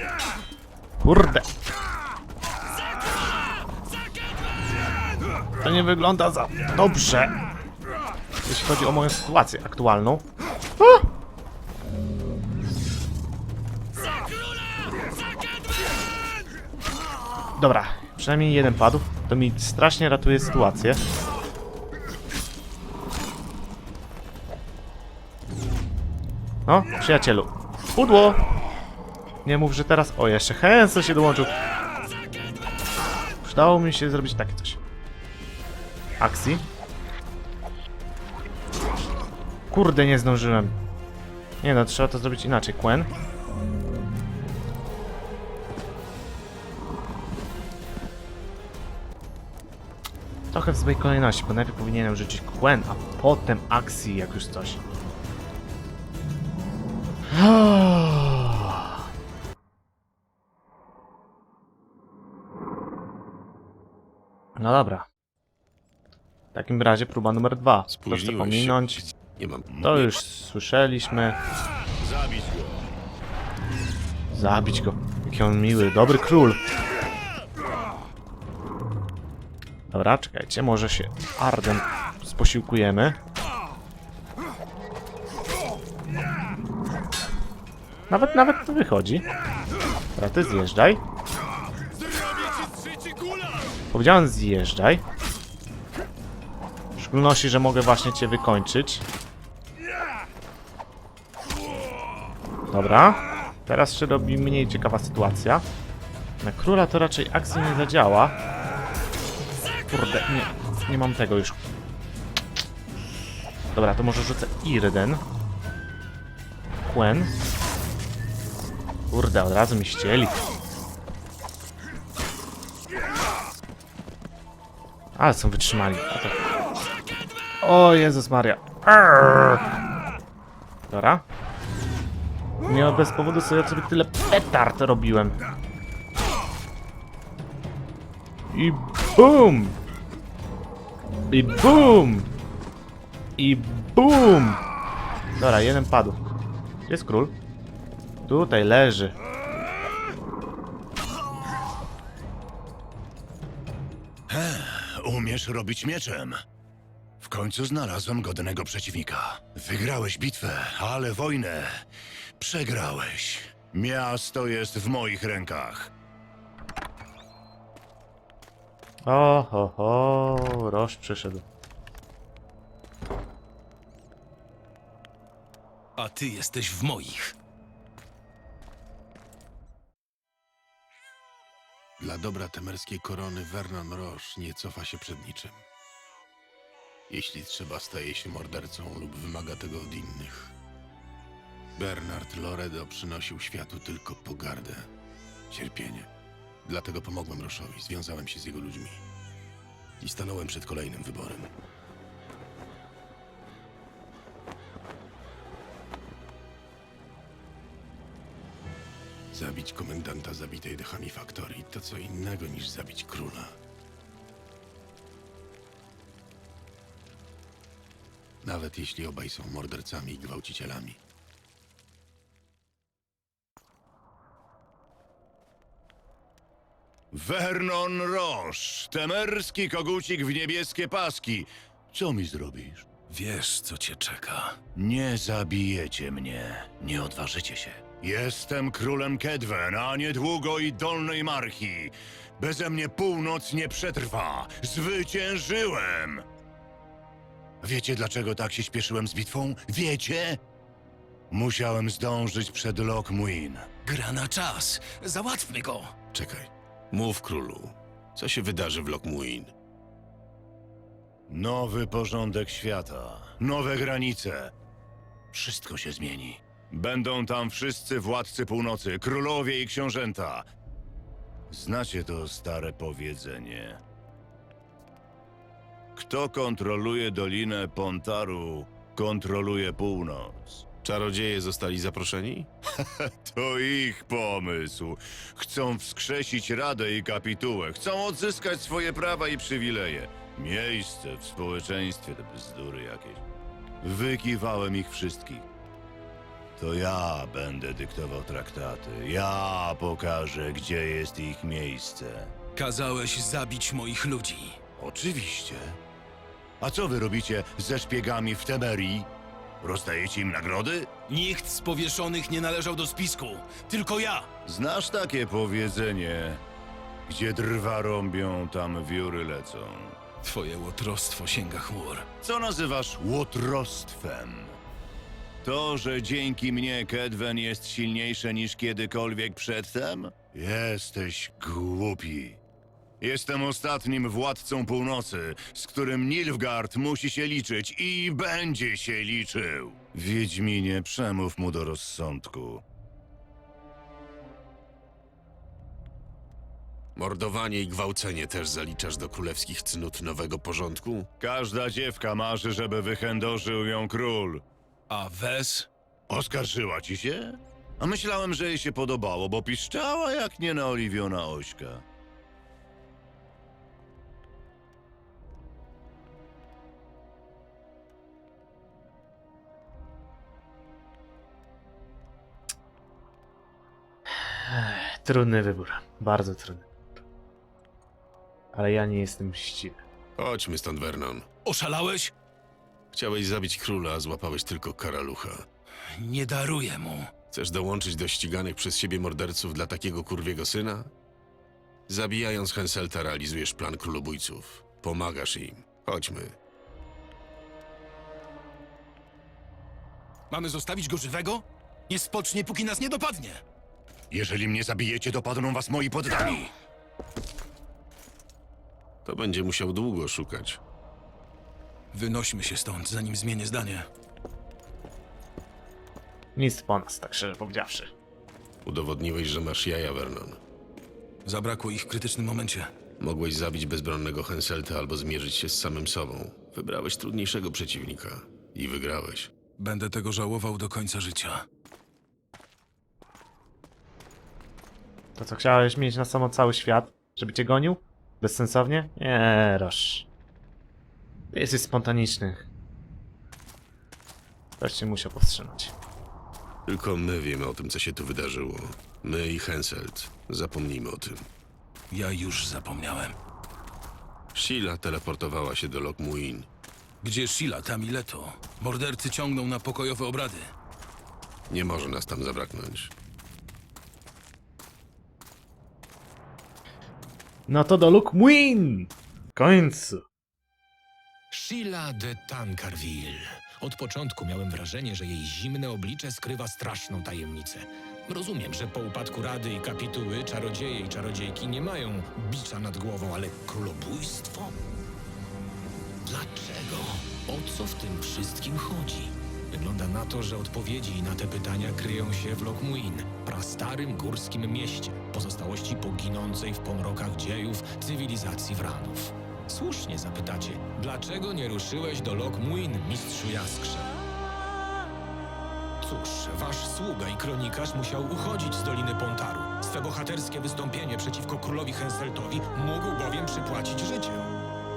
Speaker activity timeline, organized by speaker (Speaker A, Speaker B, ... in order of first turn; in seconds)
Speaker A: 1.0-1.5, 5.6-7.4, 8.5-10.3, 10.8-11.1, 17.6-21.0, 26.7-28.4, 29.4-31.6, 33.4-34.8, 36.2-36.6, 39.7-40.7, 41.6-43.1, 50.5-54.8, 57.3-58.9, 64.6-65.1, 66.5-69.0, 69.8-71.4, 74.3-76.6, 79.9-83.2, 88.1-89.2, 90.2-91.0, 93.9-95.0, 97.0-99.0, 102.7-105.6, 106.4-108.4, 109.9-111.6, 113.8-115.2, 116.9-117.3, 119.1-120.4, 125.2-126.4, 127.6-129.6, 130.9-131.2, 132.6-135.4, 138.5-139.8, 141.3-142.3, 143.4-144.6, 145.4-146.3, 146.9-147.3, 148.3-149.1, 169.1-171.4, 374.1-376.6, 378.5-379.8, 416.4-417.9, 435.2-440.1, 441.3-442.5, 444.6-445.7, 467.5-470.0
Speaker B: 67.9-70.2, 182.0-185.6, 187.1-190.5, 191.8-194.9, 195.5-196.1, 196.6-199.0, 200.0-201.5, 209.3-213.6, 218.4-221.0, 256.1-259.5, 280.8-282.5, 346.9-351.1, 380.2-381.3, 382.9-385.5, 387.3-390.9, 391.9-396.4, 409.1-410.6, 418.6-420.4, 423.0-429.3, 446.6-451.3, 454.3-456.5, 461.5-462.9
Speaker C: 69.7-70.0, 72.0-72.9, 154.3-156.4, 157.2-161.8, 162.4-165.9, 227.1-232.8, 234.8-246.2, 247.6-250.4, 251.3-253.7, 261.3-264.5, 265.3-270.5, 271.5-273.8, 276.0-280.6, 282.8-293.2, 293.8-295.4, 296.6-302.3, 304.8-305.8, 306.6-309.1, 309.6-310.9, 314.5-316.4, 317.1-320.0, 322.2-324.6, 325.4-332.4, 333.0-342.6, 351.2-354.4, 356.1-361.8, 404.1-406.5
Speaker D: 176.0-177.3, 233.1-234.6, 253.8-255.9, 302.6-304.6, 311.1-314.3, 320.2-322.1, 354.9-355.7, 381.4-382.1, 385.9-387.1, 400.3-403.4, 411.9-413.9, 421.2-422.7, 429.6-431.5, 451.9-453.1, 457.0-460.5
Speaker E: 471.3-484.6, 486.1-503.9, 505.8-514.3